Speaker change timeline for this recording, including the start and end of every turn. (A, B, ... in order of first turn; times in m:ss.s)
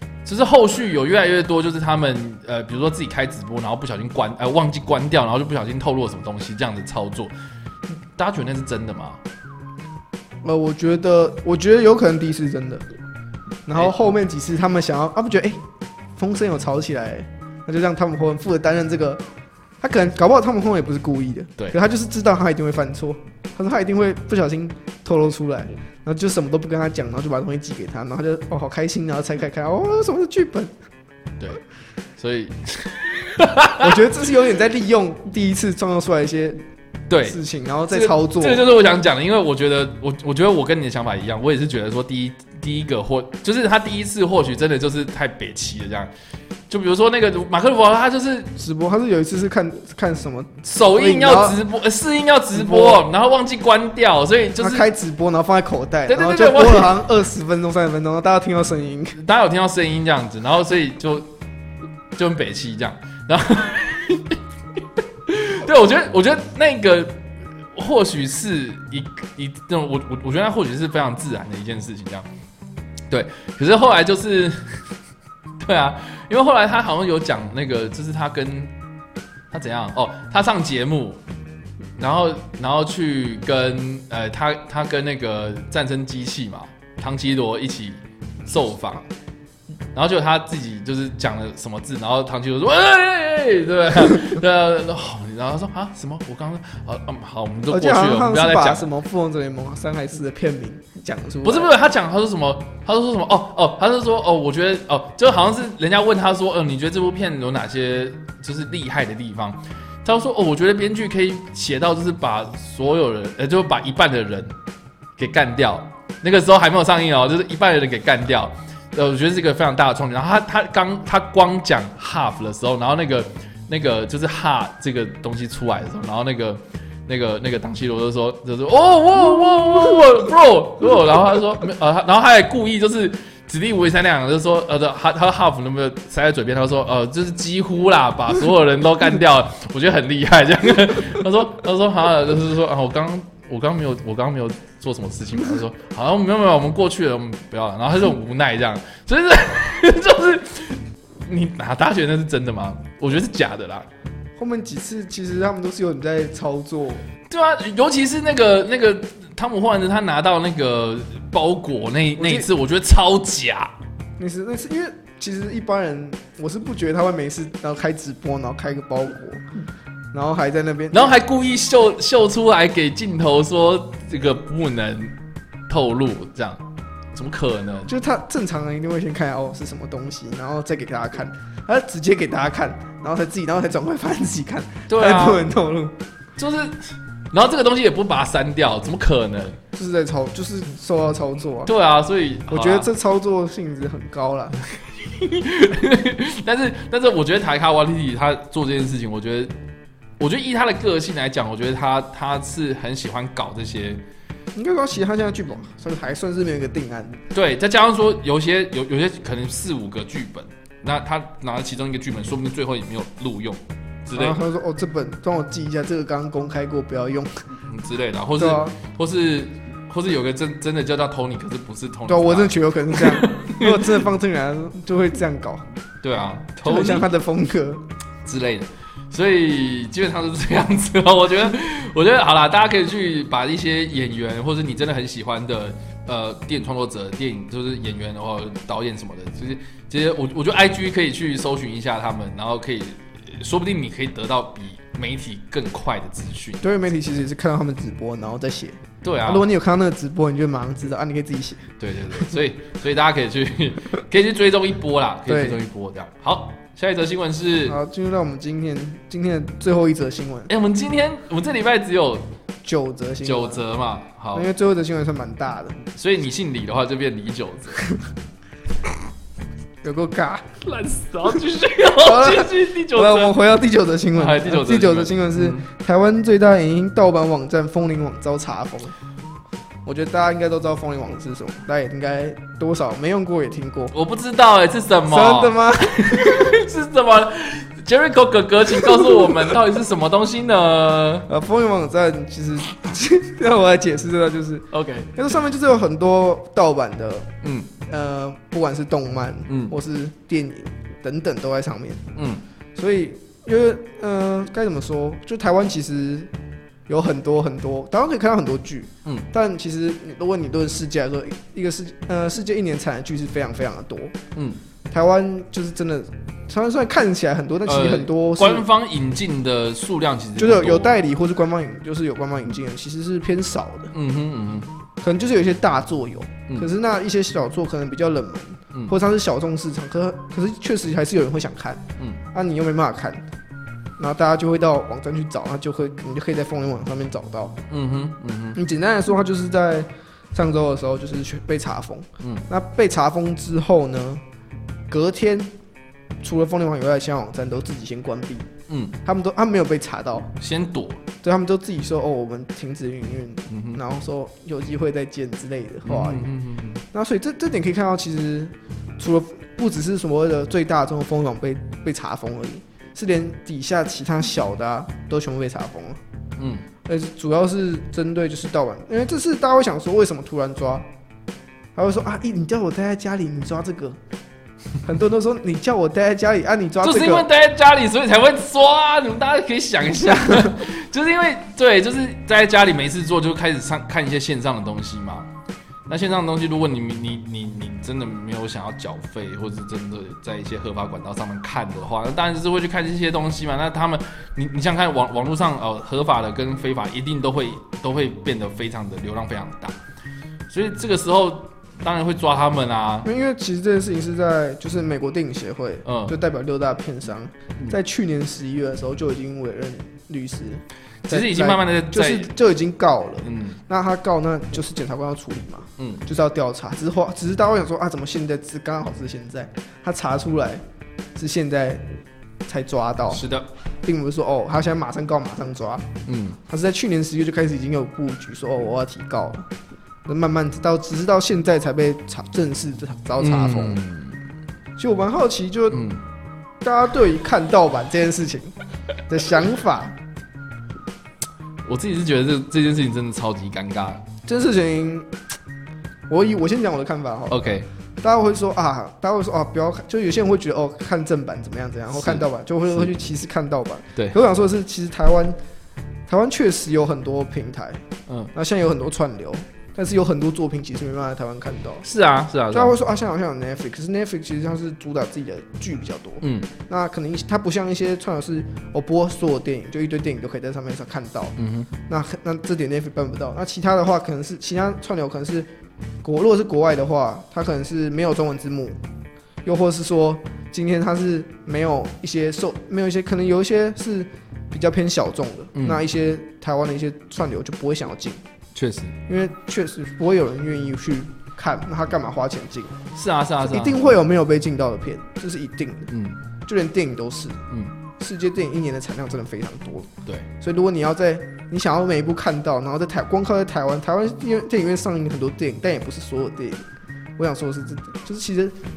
0:00.2-0:07.3 A
0:08.2-0:09.2 A
0:10.4-0:12.9 B
0:13.7-0:15.6 B
0:16.2-0:19.2 B
0:19.8-0:30.8 B
0:32.2-0:34.0 A
0:33.8-0:36.6 B
0:37.1-0:37.4 A
0:37.3-0:38.6 B
0:37.9-0:46.1 A
0:46.7-0:48.5 A
0:48.6-0:51.6 B
0:50.6-0:54.9 A
0:52.5-0:53.1 B
0:54.6-0:59.2 B
0:56.1-0:57.0 A
0:59.2-1:01.3 A
1:02.2-1:04.4 A
1:05.3-1:07.2 A
1:07.8-1:12.3 A
1:13.1-1:14.9 A
1:15.6-1:18.7 A
1:19.5-1:21.2 A
1:22.0-1:29.0 A
1:29.9-1:38.9 A
1:37.7-1:41.7 B
1:41.4-1:54.6 A
1:55.2-2:33.9 A
2:34.4-2:37.0 B
2:37.3-2:43.7 A
2:42.2-2:42.5 B
2:44.2-2:49.4 B
2:50.1-2:51.2 B
2:50.9-2:55.1 A
2:55.7-2:56.6 A
2:57.1-2:57.9 A
2:57.9-3:06.0 B
3:04.9-3:05.4 A
3:06.4-3:09.6 A
3:09.7-3:11.7 B
3:11.7-3:12.9 A
3:12.5-3:14.6 B
3:15.0-3:19.5 A
3:20.2-3:24.0 A
3:24.6-3:27.2 B
3:27.3-3:34.4 A
3:34.1-3:37.3 B
3:37.7-3:44.0 A
3:38.4-3:38.8 B
3:42.1-3:45.7 B
3:46.0-3:47.1 A
3:46.6-3:47.8 B
3:48.2-4:06.7 A
4:06.6-4:12.3 B
4:09.0-4:09.4 A
4:11.8-4:17.8 A
4:15.3-4:15.6 B
4:17.7-4:20.5 B
4:20.5-4:22.3 A
4:22.6-4:23.6 B
4:23.2-4:24.5 A
4:24.4-4:25.8 B
4:25.9-4:27.8 A
4:29.8-4:30.5 B
4:30.6-4:33.4 A
4:31.9-4:39.0 B
4:34.1-4:35.7 A
4:39.8-4:43.9 B
4:43.9-4:51.3 A
4:45.1-4:46.6 B
4:48.8-4:49.5 B
4:51.3-4:57.3 B
4:54.7-4:55.1 A
4:57.4-4:57.7 A
4:57.8-5:02.0 B
4:59.5-4:59.8 A
5:02.2-5:02.4 A
5:02.8-5:06.3 B
5:06.9-5:14.1 B
5:14.9-5:18.7 B
5:17.7-5:21.0 A
5:20.4-5:23.9 B
5:23.9-5:24.7 A
5:25.0-5:33.2 B
5:34.0-5:37.6 B
5:37.7-5:38.6 A
5:38.6-5:44.2 B
5:44.9-5:45.5 B
5:46.2-5:48.5 B
5:48.7-5:49.0 A
5:49.0-5:50.3 B
5:50.4-5:51.0 A
5:51.2-5:56.3 B
5:53.5-5:53.8 A
5:55.8-5:56.8 A
5:56.9-6:06.0 B
6:06.4-6:06.7 A
6:06.8-6:10.9 B
6:11.8-6:14.0 B
6:14.8-6:17.3 B
6:16.8-6:25.3 A
6:20.0-6:20.6 B
6:25.9-6:39.8 A
6:40.5-6:43.1 A
6:43.0-7:00.6 B
6:45.8-6:46.2 A
6:51.1-6:52.3 A
6:53.2-6:53.6 A
6:55.8-6:56.0 A
7:01.2-7:01.8 B
7:02.4-7:03.2 B
7:03.1-7:03.5 A
7:03.8-7:05.9 B
7:06.1-7:06.4 A
7:06.5-7:09.5 B
7:10.1-7:13.8 B
7:13.2-7:14.2 A
7:14.8-7:15.8 B
7:15.7-7:16.0 A
7:16.6-7:18.6 B
7:19.1-7:20.0 B
7:21.6-7:24.0 A
7:24.2-7:25.1 B
7:26.1-7:27.4 B
7:27.3-7:27.7 A
7:28.0-7:35.4 B
7:31.9-7:32.9 A
7:36.1-7:41.9 B
7:41.8-7:42.8 A
7:42.5-7:51.4 B
7:46.2-7:46.5 A
7:51.4-7:51.7 A
7:51.9-7:55.5 B
7:56.0-7:58.8 B
7:59.4-8:08.2 B
8:05.6-8:05.8 A
8:08.6-8:09.0 A
8:09.1-8:12.8 B
8:12.9-8:13.9 A
8:13.4-8:15.9 B
8:15.9-8:16.2 A
8:16.4-8:17.4 B
8:18.0-8:26.6 B
8:27.2-8:28.6 B